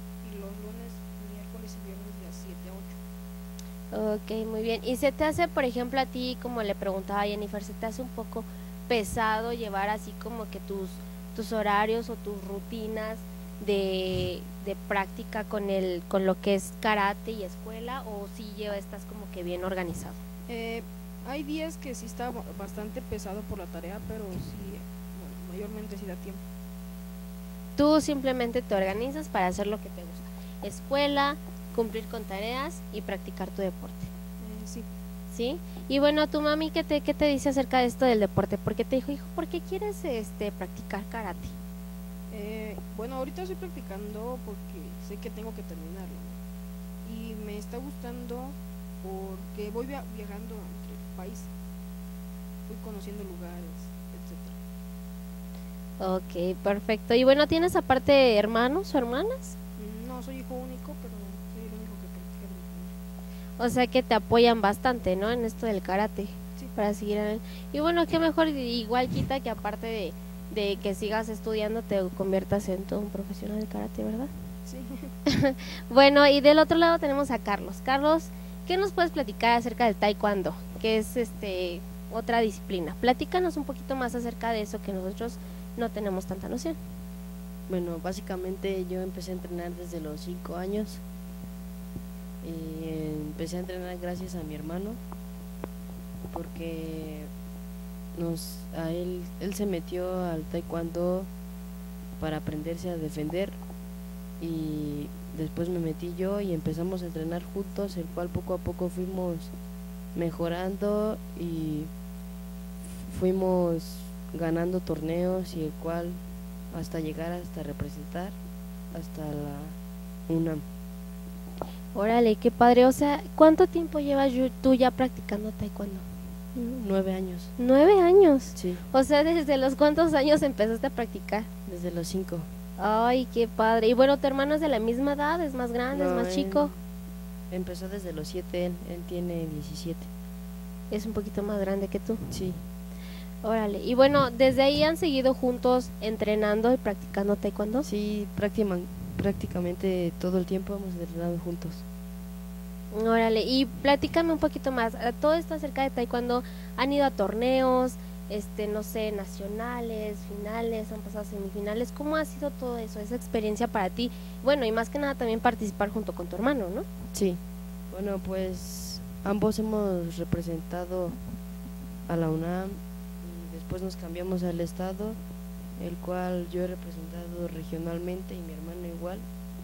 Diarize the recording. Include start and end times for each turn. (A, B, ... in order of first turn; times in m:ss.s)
0:00.2-0:03.0 A
0:03.9-0:20.2 B
0:20.5-0:26.4 A
0:27.8-0:34.1 B
0:34.4-0:34.9 A
0:35.3-0:41.6 B
0:42.3-0:46.4 A
0:47.0-0:51.5 A
0:52.7-0:54.6 A
0:56.0-0:59.6 B
0:59.8-1:02.9 A
1:03.6-1:14.3 B
1:14.6-1:15.1 A
1:15.3-1:26.8 B
1:27.7-1:31.0 C
1:32.4-1:35.0 C
1:36.3-1:37.3 C
1:38.2-1:41.3 C
1:42.2-1:43.6 C
1:44.4-1:49.5 C
1:50.1-1:51.9 C
1:52.8-1:58.4 C
1:58.9-1:59.8 C
2:00.3-2:00.6 C
2:01.9-2:06.0 B
2:06.5-2:07.5 C
2:07.6-2:11.5 B
2:08.5-2:08.8 C
2:11.6-2:12.5 C
2:12.8-2:16.7 B
2:15.9-2:16.8 C
2:17.5-2:20.1 C
2:20.9-2:22.3 B
2:22.3-2:22.6 C
2:23.4-2:27.9 B
2:27.8-2:31.8 C
2:32.9-2:46.8 B
2:47.1-2:47.4 C
2:47.9-2:51.2 C
2:52.1-2:55.2 C
2:55.8-2:59.2 C